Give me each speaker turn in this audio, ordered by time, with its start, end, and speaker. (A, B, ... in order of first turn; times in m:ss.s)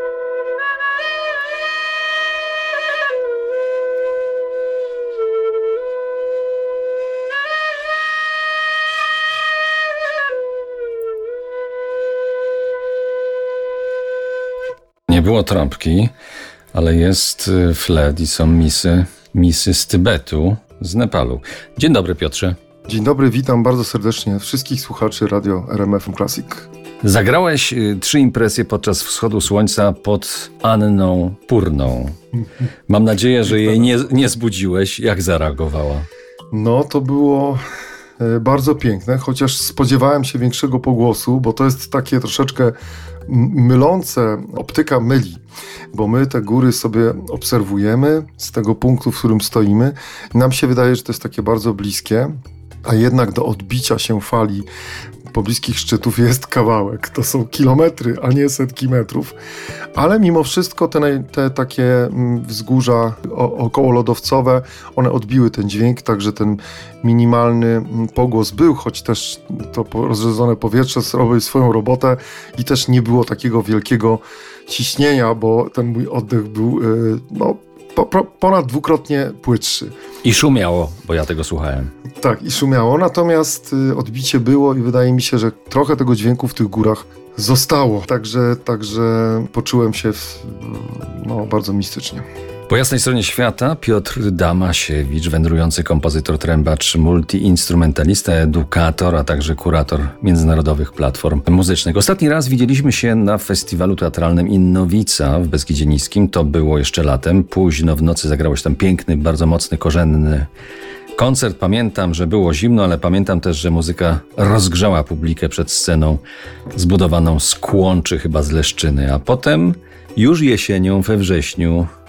0:15.1-0:16.1 A
0:16.7-0:22.6 A
0:22.9-0:26.7 B
0:27.0-0:32.2 A
0:32.9-0:36.1 A
0:36.5-0:37.6 B
0:38.2-0:54.7 B
0:55.3-0:59.4 B
0:59.9-1:19.9 B
1:20.2-1:21.9 A
1:22.2-1:32.2 B
1:32.7-1:50.5 A
1:51.2-2:01.9 A